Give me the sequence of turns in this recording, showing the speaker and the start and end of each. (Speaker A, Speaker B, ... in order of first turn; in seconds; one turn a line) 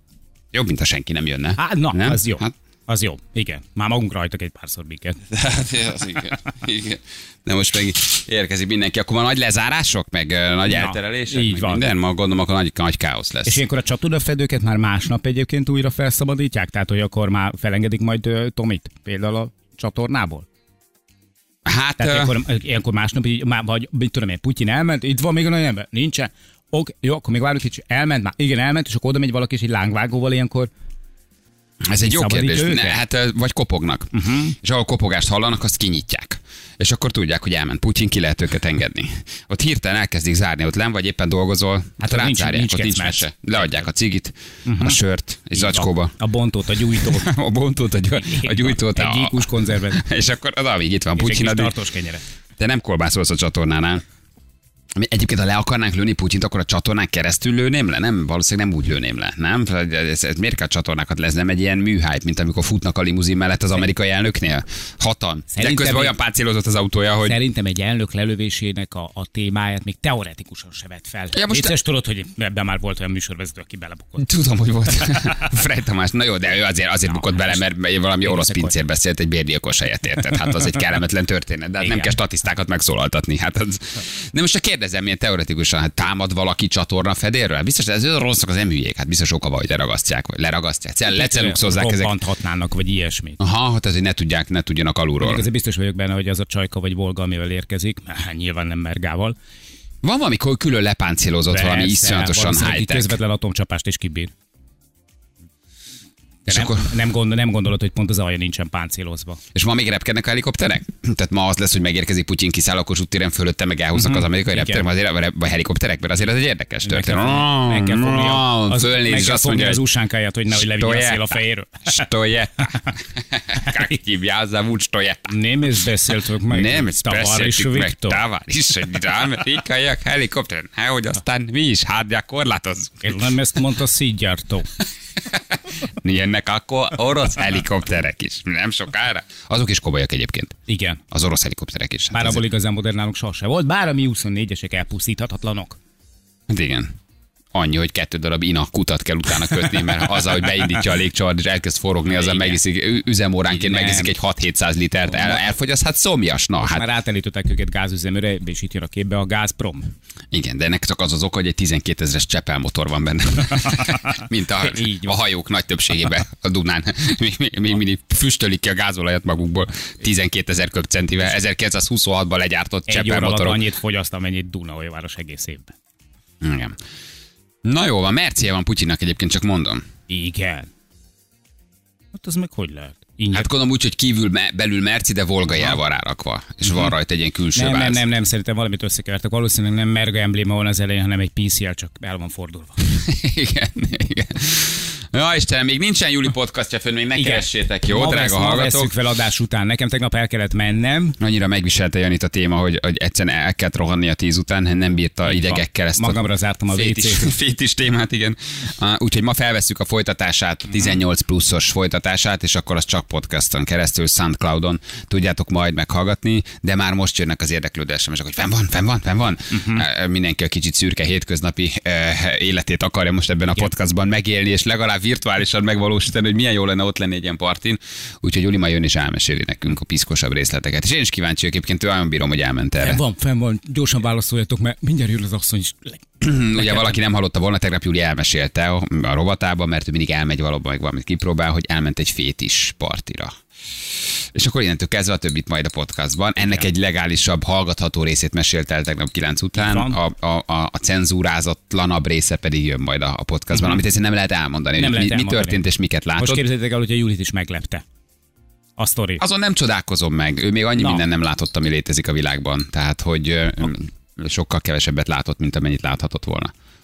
Speaker A: 0.5-2.5
Speaker B: 1.6-5.2
Speaker A: 5.3-13.6
Speaker B: 10.7-11.8
Speaker B: 13.5-20.5
Speaker A: 21.6-22.3
Speaker B: 22.0-30.7
Speaker A: 31.9-46.1
Speaker B: 32.0-33.0
Speaker B: 34.1-34.6
Speaker B: 42.0-43.2
Speaker B: 44.7-45.0
Speaker B: 45.5-47.3
Speaker A: 46.9-51.8
Speaker B: 48.1-50.0
Speaker B: 51.2-52.2
Speaker A: 52.6-54.0
Speaker A: 55.0-67.4
Speaker B: 65.5-66.2
Speaker B: 67.2-74.3
Speaker A: 71.3-71.8
Speaker A: 74.2-92.2
Speaker B: 75.0-75.5
Speaker B: 77.1-77.6
Speaker B: 78.2-78.8
Speaker B: 81.8-82.1
Speaker B: 91.1-93.4
Speaker A: 93.4-95.5
Speaker B: 95.2-99.4
Speaker A: 100.0-103.2
Speaker B: 101.5-104.3
Speaker A: 106.5-106.9
Speaker B: 106.5-109.4
Speaker A: 109.5-119.8
Speaker B: 114.0-114.9
Speaker B: 116.8-122.0
Speaker A: 120.5-125.4
Speaker B: 125.3-128.2
Speaker A: 126.5-133.2
Speaker B: 133.0-134.7
Speaker A: 135.3-140.6
Speaker B: 140.7-141.0
Speaker A: 141.1-142.4
Speaker B: 142.1-145.8
Speaker A: 146.5-146.9
Speaker A: 147.5-156.8
Speaker B: 152.1-152.6
Speaker B: 153.5-154.1
Speaker B: 156.6-159.9
Speaker A: 160.3-173.6
Speaker B: 163.7-165.2
Speaker B: 172.9-175.7
Speaker A: 176.4-176.8
Speaker A: 177.7-179.8
Speaker B: 180.1-180.7
Speaker B: 182.1-183.5
Speaker A: 183.3-188.1
Speaker B: 187.6-192.9
Speaker A: 192.9-198.9
Speaker B: 197.2-201.2
Speaker A: 201.2-233.0
Speaker B: 205.2-207.3
Speaker B: 219.5-219.8
Speaker B: 232.8-236.9
Speaker A: 236.2-243.4
Speaker A: 244.3-256.4
Speaker B: 246.4-246.7
Speaker B: 249.6-250.0
Speaker B: 253.5-253.8
Speaker B: 254.8-255.6
Speaker B: 256.2-257.8
Speaker B: 258.8-259.2
Speaker A: 259.2-266.5
Speaker B: 260.8-261.0